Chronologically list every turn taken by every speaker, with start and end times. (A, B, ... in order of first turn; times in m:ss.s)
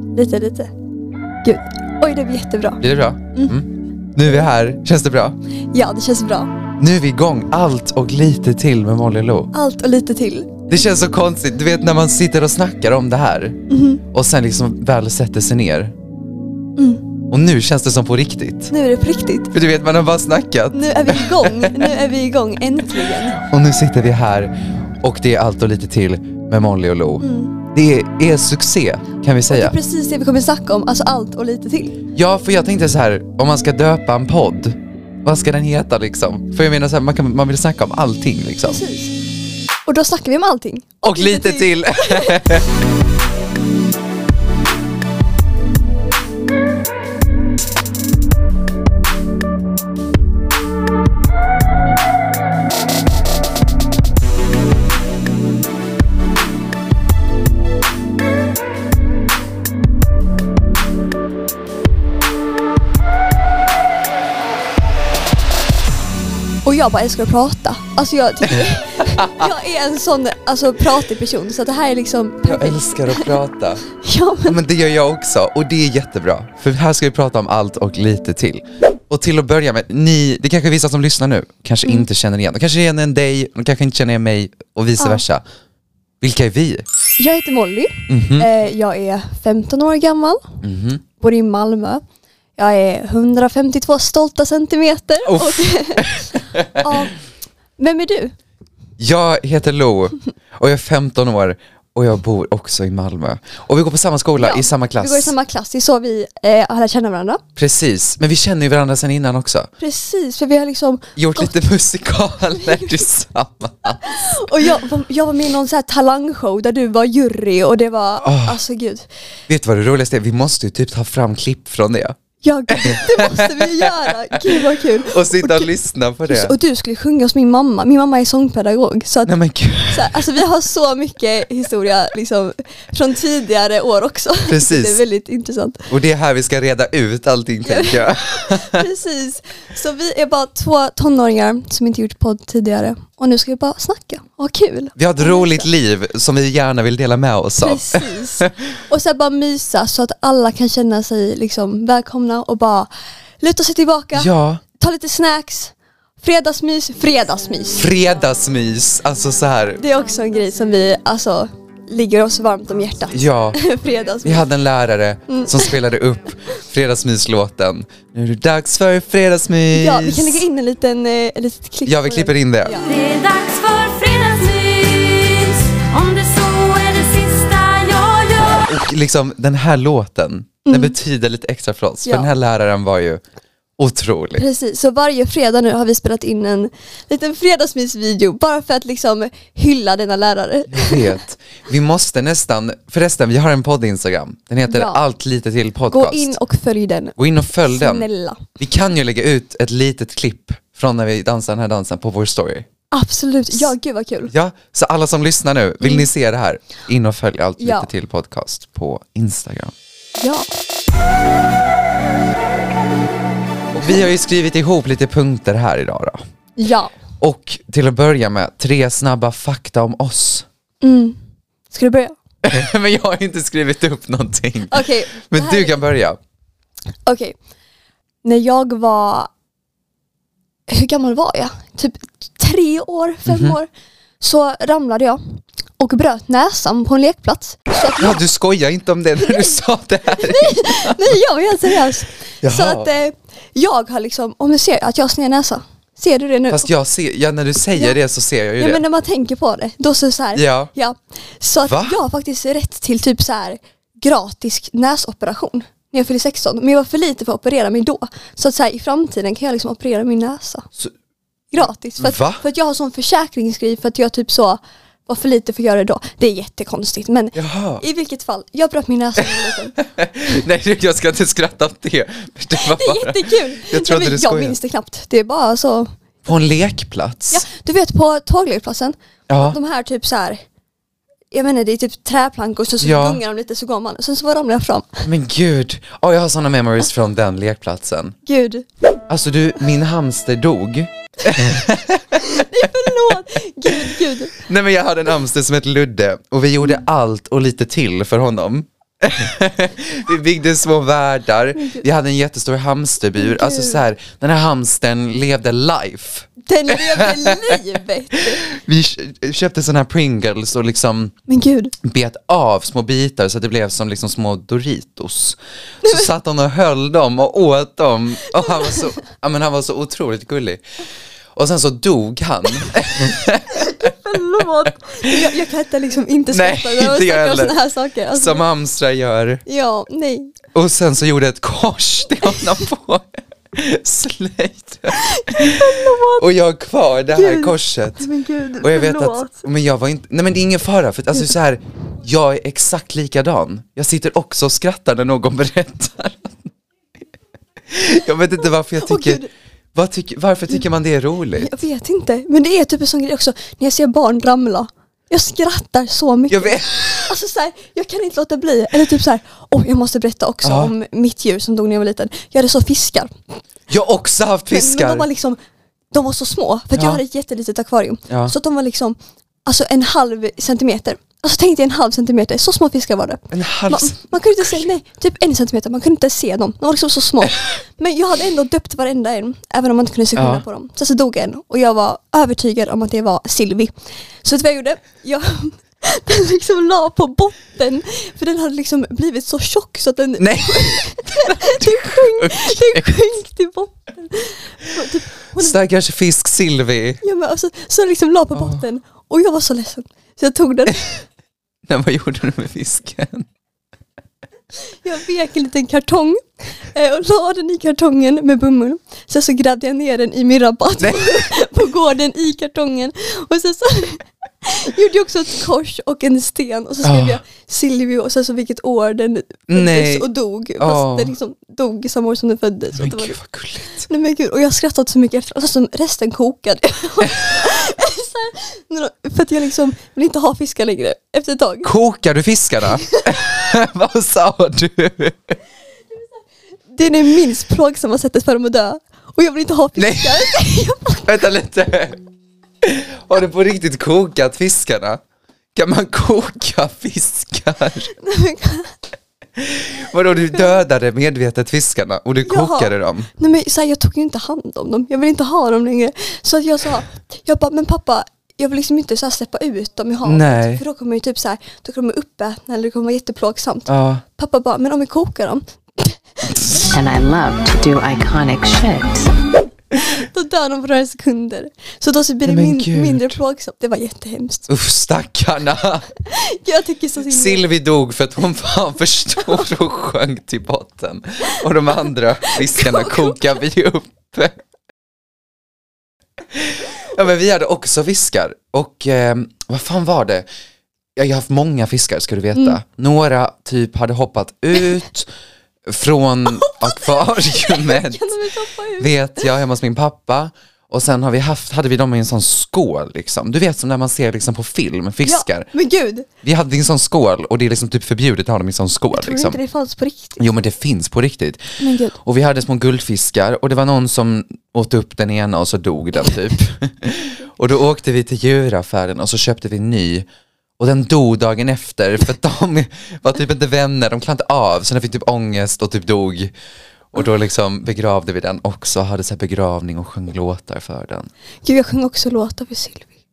0:00.2-0:00.7 A
0:01.4-0:02.8 A
0:02.8-0:05.4 B
0:05.7-0:06.5 A
0:06.8-0:09.5 B
0:09.5-0:10.8 A
0:10.7-0:15.9 B
0:13.7-0:14.0 A
0:16.8-0:17.0 A
0:17.3-0:18.7 B
0:18.7-0:19.5 A
0:19.5-0:21.9 B
0:20.7-0:23.4 A
0:23.4-0:29.8 B
0:27.2-0:27.5 A
0:29.5-0:32.0 A
0:32.1-0:38.8 B
0:38.6-0:39.1 A
0:39.9-0:42.5 A
0:41.0-0:42.7 B
1:06.6-1:13.3 A
1:08.5-1:09.5 B
1:12.4-1:13.8 B
1:14.0-1:14.6 A
1:14.5-1:25.4 B
1:26.2-1:26.9 B
1:27.2-1:30.6 A
1:28.1-1:28.5 B
1:30.6-1:31.0 B
1:31.2-1:32.0 A
1:32.6-1:37.2 A
1:35.2-1:37.0 B
1:37.8-1:38.3 A
1:39.0-1:45.3 B
1:44.4-1:47.4 A
1:47.6-1:49.7 B
1:49.8-1:51.5 A
1:51.2-1:54.4 B
1:52.6-1:53.0 A
1:54.0-1:59.1 A
1:58.2-1:58.6 B
1:59.5-2:02.2 B
2:02.4-2:05.7 A
2:02.7-2:06.5 B
2:06.3-2:09.3 A
2:09.3-2:10.2 B
2:09.9-2:15.9 A
2:14.5-2:15.0 B
2:15.9-2:18.9 B
2:17.6-2:25.7 A
2:25.0-2:28.5 B
2:27.6-2:37.9 A
2:34.1-2:34.6 B
2:37.8-2:39.8 B
2:39.8-2:44.5 A
2:43.1-2:43.6 B
2:44.2-2:50.4 B
2:45.3-2:45.7 A
2:49.7-2:52.9 A
2:51.9-2:52.8 B
2:52.8-2:58.7 C
2:58.7-3:03.2 B
3:00.6-3:01.0 A
3:02.0-3:02.3 A
3:03.8-3:04.4 B
3:04.4-3:11.2 A
3:10.7-3:16.4 B
3:14.7-3:15.0 A
3:15.9-3:17.2 A
3:17.2-3:18.1 B
3:17.7-3:18.5 A
3:18.6-3:22.7 B
3:22.9-3:24.3 A
3:24.3-3:29.7 B
3:25.8-3:26.1 A
3:27.6-3:27.9 A
3:30.2-3:30.5 A
3:33.7-3:36.2 B
3:36.6-3:36.9 A
3:37.2-3:40.5 B
3:40.8-3:41.2 A
3:41.7-3:42.2 A
3:42.4-3:46.2 B
3:44.7-3:45.8 A
3:47.1-3:47.4 A
3:48.2-3:49.3 A
3:50.7-3:53.7 A
3:53.3-3:53.6 B
3:54.2-3:55.2 A
3:55.8-3:58.2 A
3:58.0-4:01.2 B
4:00.1-4:06.7 A
4:02.4-4:02.9 B
4:06.5-4:08.8 B
4:08.6-4:20.7 A
4:10.3-4:10.7 B
4:11.6-4:12.0 B
4:21.5-4:29.8 A
4:21.6-4:22.4 B
4:27.4-4:27.8 B
4:29.2-4:34.6 B
4:32.6-4:35.9 A
4:36.3-4:37.4 B
4:37.3-4:40.4 A
4:39.3-4:39.6 B
4:41.3-4:45.1 A
4:42.8-4:43.2 B
4:45.0-4:48.2 B
4:48.3-4:48.7 A
4:49.1-4:53.1 B
4:52.1-4:54.4 A
4:53.7-5:07.6 B
5:01.6-5:01.8 A
5:03.2-5:03.8 A
5:06.4-5:08.4 A
5:08.2-5:11.1 B
5:11.3-5:11.7 A
5:11.8-5:20.6 B
5:15.8-5:16.1 A
5:18.4-5:18.9 A
5:21.4-5:25.4 B
5:23.5-5:28.4 A
5:26.3-5:27.6 B
5:28.1-5:29.4 B
5:29.5-5:30.4 A
5:30.5-5:46.5 B
5:34.9-5:36.3 A
5:37.1-5:39.5 A
5:47.7-5:49.2 B
5:48.8-5:49.3 A
5:49.8-5:51.6 B
5:51.4-6:03.1 A
5:56.3-5:57.1 B
6:00.4-6:00.7 B
6:03.7-6:05.1 B
6:04.5-6:05.4 A
6:05.9-6:35.6 A
6:06.8-6:07.0 B
6:13.3-6:14.7 B
6:20.2-6:20.4 B
6:30.2-6:32.8 B
6:35.4-6:37.0 B
6:37.0-6:41.0 A
6:38.4-6:38.6 B
6:41.7-6:43.3 B
6:44.8-7:03.2 A
6:50.8-6:51.3 B
6:56.8-6:57.2 B
6:59.5-7:00.1 B
7:00.6-7:01.1 B
7:02.7-7:03.9 B
7:03.9-7:11.7 A
7:11.6-7:15.4 B
7:16.7-7:21.2 A
7:19.8-7:20.3 B
7:21.1-7:22.0 B
7:22.6-7:25.0 B
7:25.6-7:27.9 B
7:28.0-7:28.7 A
7:29.4-7:33.1 B
7:32.2-7:46.0 A
7:40.0-7:40.6 B
7:43.7-7:44.0 B
7:46.3-7:46.7 B
7:46.7-7:49.1 D
7:49.9-7:54.5 A
7:52.2-7:53.2 B
7:54.5-7:55.9 B
7:56.1-7:57.5 A
7:57.1-8:04.4 B
8:02.3-8:03.2 A
8:06.3-8:10.3 B
8:11.0-8:15.1 B
8:15.7-8:18.1 B
8:16.4-8:18.9 A
8:18.8-8:25.5 B
8:25.0-8:26.1 A
8:26.2-8:29.4 B
8:28.9-8:30.2 A
8:30.2-8:31.4 B
8:31.6-8:32.0 A
8:32.0-8:40.1 B
8:40.6-8:46.3 B
8:46.9-8:51.1 B
8:51.4-8:52.9 A